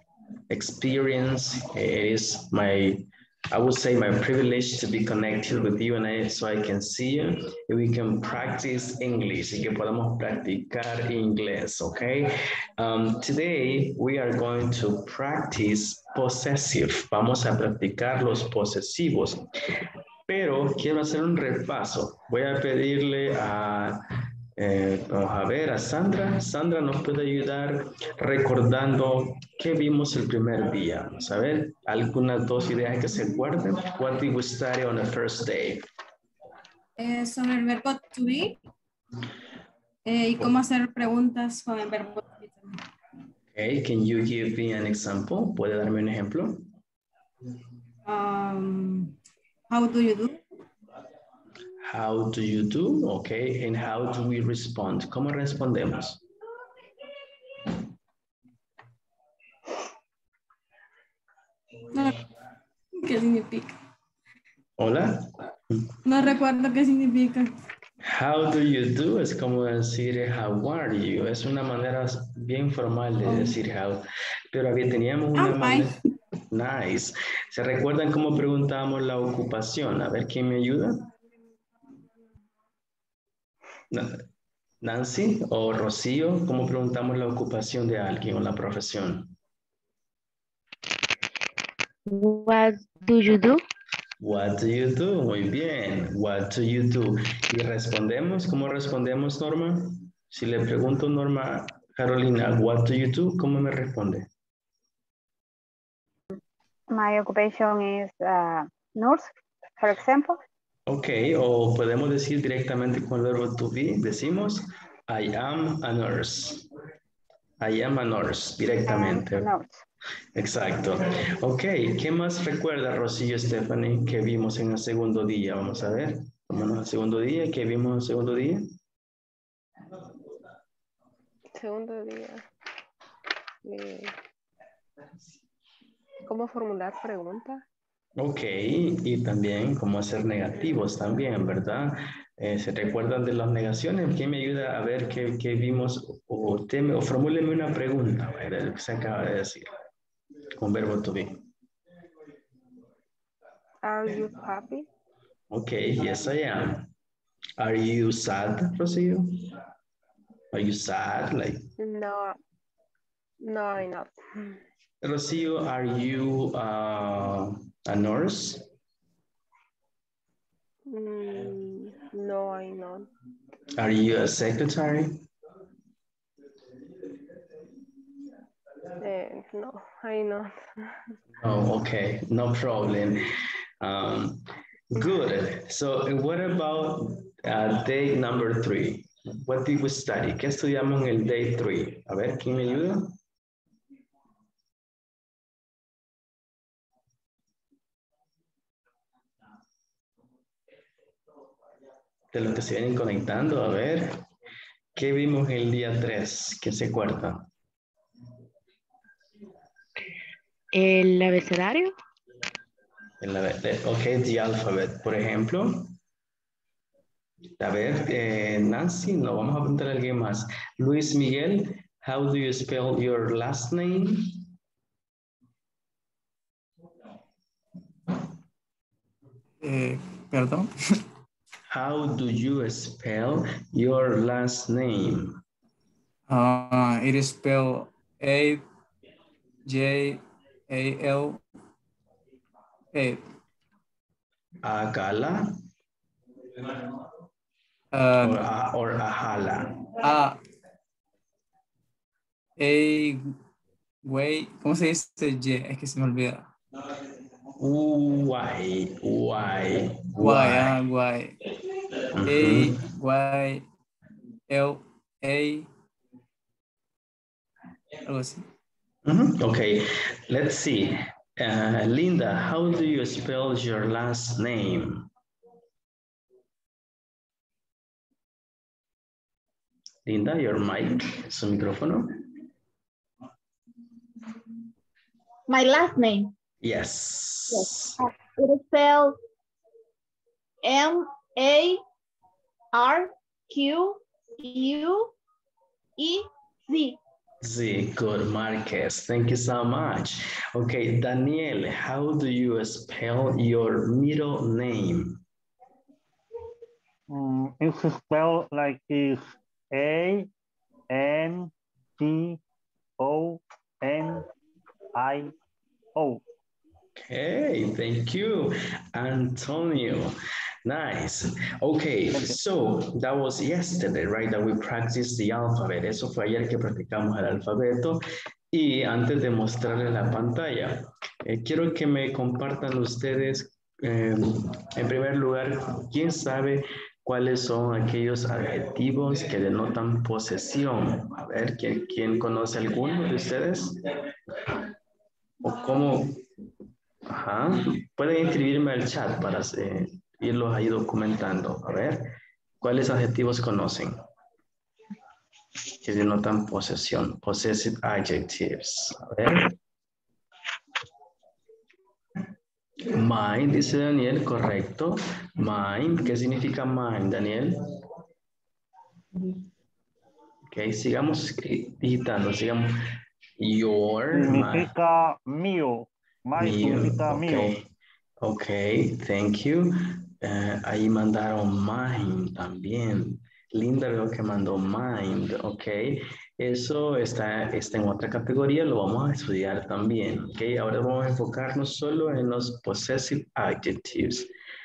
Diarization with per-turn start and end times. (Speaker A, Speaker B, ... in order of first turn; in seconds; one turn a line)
Speaker A: 0.5-19.4
Speaker A: 20.3-24.0
Speaker A: 24.6-35.9
Speaker B: 37.0-38.6
Speaker B: 40.1-42.8
Speaker A: 43.5-46.7
Speaker B: 48.0-49.1
Speaker B: 49.7-50.4
Speaker A: 51.8-56.2
Speaker B: 61.9-62.2
Speaker B: 63.0-63.7
Speaker A: 64.8-65.9
Speaker B: 66.0-67.5
Speaker A: 68.0-76.0
Speaker B: 73.3-73.5
Speaker B: 75.3-75.9
Speaker A: 76.5-81.0
Speaker A: 83.9-84.2
Speaker A: 84.8-89.3
Speaker C: 92.1-93.6
Speaker A: 94.2-104.3
Speaker D: 106.9-110.4
Speaker A: 110.9-116.7
Speaker A: 117.6-119.5
Speaker D: 118.9-119.8
Speaker A: 120.3-128.7
Speaker E: 131.5-132.4
Speaker E: 133.6-134.1
Speaker E: 136.3-137.6
Speaker A: 138.2-149.7
Speaker A: 150.6-151.4
Speaker E: 153.8-154.9
Speaker A: 155.5-156.9
Speaker A: 157.6-159.5
Speaker A: 160.5-161.7
Speaker E: 161.8-162.4
Speaker E: 163.4-164.6
Speaker A: 165.0-168.6
Speaker E: 170.9-173.1
Speaker A: 173.8-175.2
Speaker E: 179.0-181.2
Speaker A: 181.4-183.2
Speaker A: 183.8-193.2
Speaker A: 202.3-204.2
Speaker A: 204.9-207.5
Speaker C: 210.7-211.9
Speaker A: 213.2-215.9
Speaker A: 217.6-224.4
Speaker F: 229.6-230.7
Speaker A: 231.7-235.4
Speaker F: 236.3-238.6
Speaker F: 239.7-241.4
Speaker F: 242.9-243.2
Speaker A: 244.6-245.4
Speaker F: 247.9-248.4
Speaker A: 248.2-249.8
Speaker F: 250.0-250.4
Speaker F: 252.6-253.3
Speaker F: 254.0-256.4
Speaker A: 257.6-260.8
Speaker F: 260.2-261.5
Speaker A: 262.1-262.8
Speaker F: 262.2-263.6
Speaker F: 264.5-265.7
Speaker F: 268.0-268.4
Speaker A: 269.0-275.1
Speaker A: 280.1-282.2
Speaker G: 285.5-286.3
Speaker A: 286.6-288.0
Speaker G: 287.5-289.1
Speaker G: 290.6-291.8
Speaker G: 292.7-295.1
Speaker G: 296.0-297.0
Speaker A: 297.4-305.2
Speaker H: 307.1-310.3
Speaker H: 310.9-312.4
Speaker H: 313.0-314.3
Speaker H: 314.9-315.3
Speaker H: 315.9-316.2
Speaker A: 316.9-328.0
Speaker A: 328.5-344.6
Speaker A: 345.4-346.2
Speaker A: 347.1-354.0
Speaker A: 355.7-359.6
Speaker A: 362.9-367.6
Speaker A: 370.5-372.8
Speaker A: 373.4-374.7
Speaker H: 374.1-377.5
Speaker A: 376.4-377.7
Speaker A: 378.2-394.3